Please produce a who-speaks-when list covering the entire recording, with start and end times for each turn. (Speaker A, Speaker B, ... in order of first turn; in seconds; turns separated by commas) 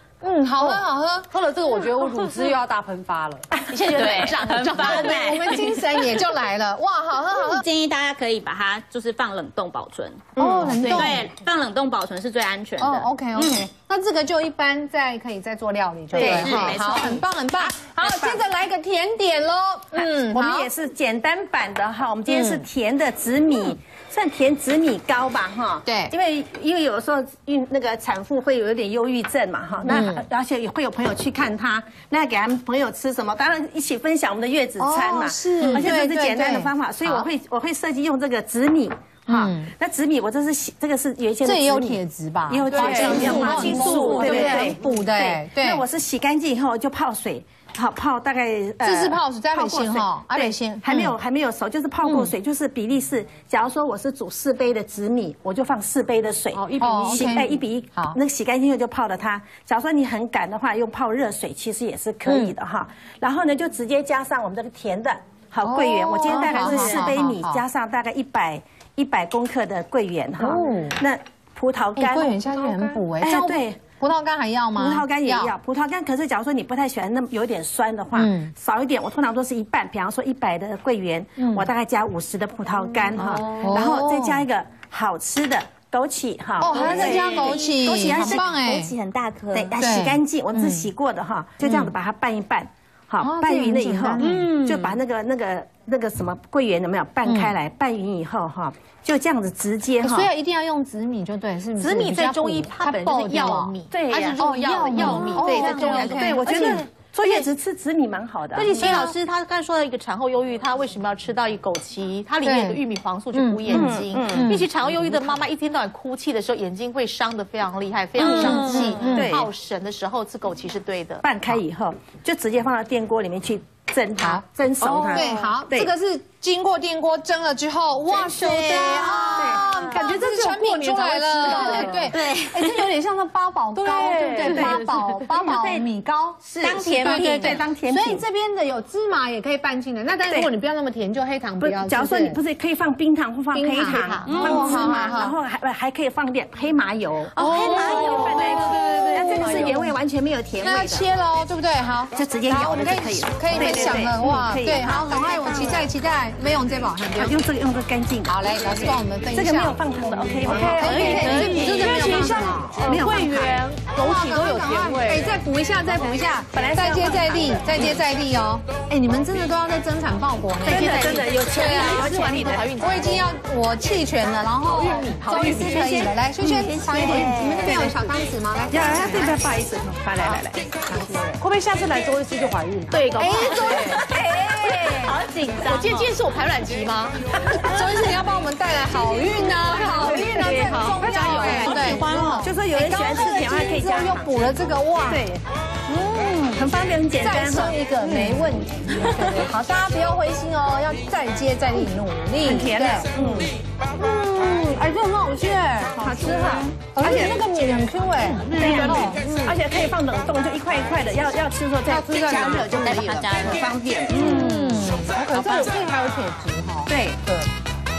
Speaker A: 0.2-1.3, Speaker B: 0.6-3.6, Speaker C: 3.7-5.4, Speaker D: 3.8-6.3, Speaker A: 4.7-7.7, Speaker D: 7.3-13.7, Speaker A: 10.4-11.3, Speaker C: 10.6-11.2, Speaker A: 12.8-20.7, Speaker D: 16.1-17.3, Speaker E: 16.1-17.1, Speaker E: 18.0-18.4, Speaker E: 19.9-73.8, Speaker A: 22.3-22.6, Speaker A: 25.9-26.1, Speaker A: 29.9-30.3, Speaker A: 34.8-37.3, Speaker A: 39.3-39.7, Speaker A: 41.4-45.8, Speaker B: 42.7-43.3, Speaker D: 43.1-44.5, Speaker A: 48.8-51.1, Speaker A: 52.0-52.3, Speaker B: 56.5-57.6, Speaker A: 56.8-58.2, Speaker A: 62.3-62.5, Speaker A: 65.6-67.6, Speaker A: 70.4-71.0, Speaker A: 72.0-75.5, Speaker E: 74.8-100.3, Speaker A: 78.2-78.5, Speaker A: 81.4-81.7, Speaker A: 83.1-84.5, Speaker A: 86.6-89.0, Speaker D: 86.7-89.7, Speaker A: 89.8-90.9, Speaker A: 91.6-91.9, Speaker A: 93.2-95.0, Speaker A: 97.3-97.5, Speaker A: 100.0-106.9, Speaker C: 101.8-107.5, Speaker E: 103.9-104.4, Speaker E: 105.0-109.1, Speaker C: 108.5-121.3, Speaker A: 108.7-109.1, Speaker A: 112.4-112.8, Speaker A: 113.3-115.4, Speaker E: 113.7-114.6, Speaker E: 118.2-119.5, Speaker A: 118.2-119.5, Speaker D: 118.3-119.0, Speaker E: 121.2-125.9, Speaker A: 124.2-142.4, Speaker E: 128.1-132.2, Speaker B: 129.9-132.0, Speaker D: 131.4-132.9, Speaker E: 133.8-135.9, Speaker B: 134.0-134.6, Speaker D: 134.4-134.8, Speaker E: 136.4-138.2, Speaker D: 136.6-137.6, Speaker E: 141.6-151.1, Speaker A: 143.5-145.3, Speaker C: 143.8-144.8, Speaker D: 144.3-145.1, Speaker A: 147.3-149.9, Speaker C: 147.6-148.6, Speaker A: 150.6-157.4, Speaker E: 152.1-155.9, Speaker E: 157.1-163.6, Speaker A: 158.3-163.2, Speaker B: 160.4-165.4, Speaker A: 163.9-179.4, Speaker E: 166.5-168.1, Speaker C: 170.7-173.2, Speaker E: 170.7-173.2, Speaker B: 174.7-176.0, Speaker C: 175.0-175.8, Speaker E: 175.3-178.2, Speaker D: 176.8-177.7, Speaker E: 178.7-181.4, Speaker B: 181.4-183.1, Speaker C: 182.9-183.9, Speaker D: 183.1-183.9, Speaker A: 183.2-185.2, Speaker E: 183.4-185.2, Speaker D: 184.8-186.1, Speaker C: 185.4-187.5, Speaker E: 187.4-188.0, Speaker A: 187.5-195.3, Speaker E: 188.9-194.5, Speaker D: 190.9-192.2, Speaker E: 195.1-195.4, Speaker A: 195.9-196.4, Speaker E: 196.4-199.5, Speaker A: 197.2-203.4, Speaker E: 202.4-203.6, Speaker A: 204.0-209.5, Speaker E: 205.9-207.5, Speaker E: 208.4-214.5, Speaker A: 211.9-213.0, Speaker D: 212.6-215.7, Speaker A: 214.1-217.5, Speaker E: 216.9-217.2